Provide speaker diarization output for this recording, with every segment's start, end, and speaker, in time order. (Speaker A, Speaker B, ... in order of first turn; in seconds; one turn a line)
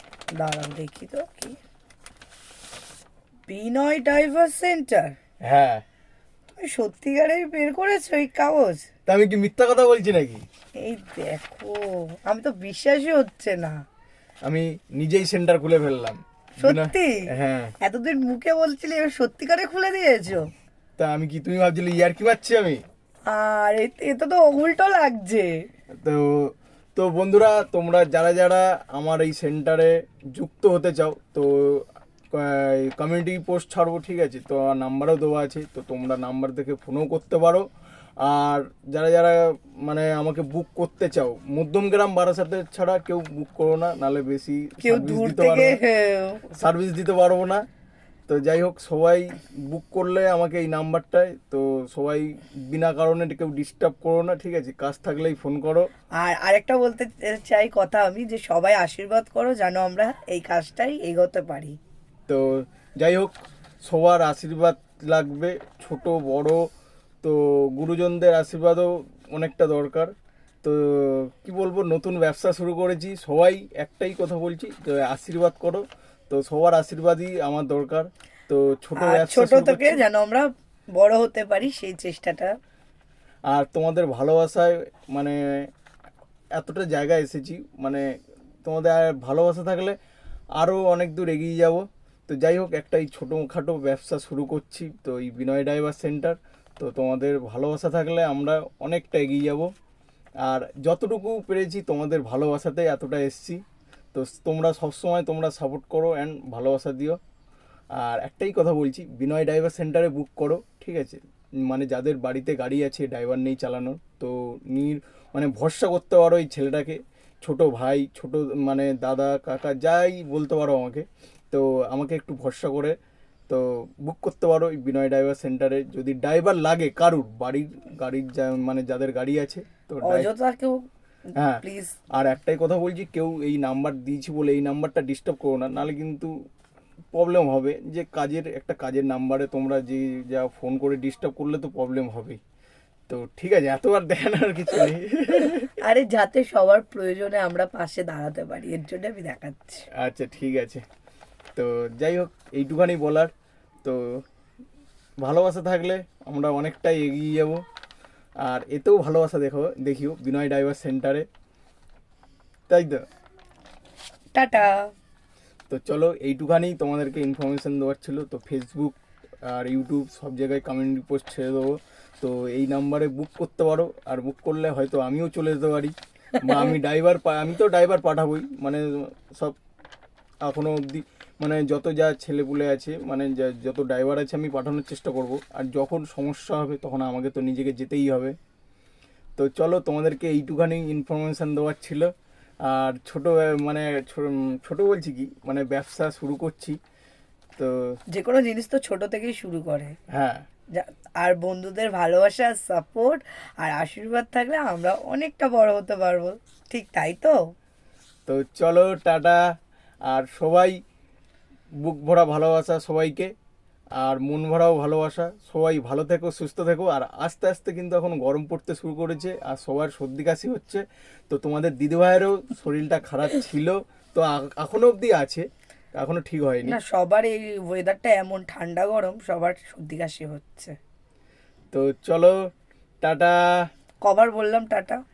Speaker A: 0.3-1.6
Speaker A: 3.5-5.1
Speaker B: 5.4-5.8
Speaker A: 6.6-8.9
Speaker B: 9.1-10.4
Speaker A: 10.8-13.8
Speaker B: 14.4-17.7
Speaker A: 16.6-17.1
Speaker A: 17.8-20.4
Speaker B: 21.0-22.8
Speaker A: 23.3-25.5
Speaker B: 26.0-37.6
Speaker B: 38.2-45.8
Speaker A: 44.8-46.4
Speaker B: 46.5-47.6
Speaker B: 48.3-55.9
Speaker A: 56.2-61.8
Speaker B: 62.3-63.3
Speaker B: 63.8-66.6
Speaker B: 67.2-80.0
Speaker A: 79.0-82.5
Speaker B: 83.5-85.7
Speaker B: 86.6-88.0
Speaker B: 88.6-90.0
Speaker B: 90.6-99.7
Speaker B: 100.4-103.6
Speaker B: 104.1-107.2
Speaker B: 108.0-123.0
Speaker B: 123.5-130.3
Speaker A: 130.0-130.8
Speaker B: 131.3-136.3
Speaker A: 131.6-132.0
Speaker B: 137.1-142.4
Speaker B: 143.1-145.7
Speaker A: 145.8-149.8
Speaker B: 149.9-150.8
Speaker B: 151.6-153.3
Speaker B: 153.8-154.2
Speaker B: 155.2-157.6
Speaker B: 158.4-161.3
Speaker B: 162.7-163.0
Speaker A: 164.3-164.8
Speaker B: 165.7-179.5
Speaker A: 176.5-176.7
Speaker B: 180.4-188.3
Speaker B: 189.4-192.1
Speaker B: 192.6-196.8
Speaker B: 197.6-197.9
Speaker A: 198.1-199.9
Speaker B: 200.1-200.4
Speaker A: 200.8-207.3
Speaker B: 208.2-209.4
Speaker B: 210.1-210.8
Speaker B: 211.8-213.3
Speaker B: 214.0-226.8
Speaker A: 226.6-230.7
Speaker B: 231.7-232.3
Speaker B: 233.0-233.4
Speaker A: 234.0-235.0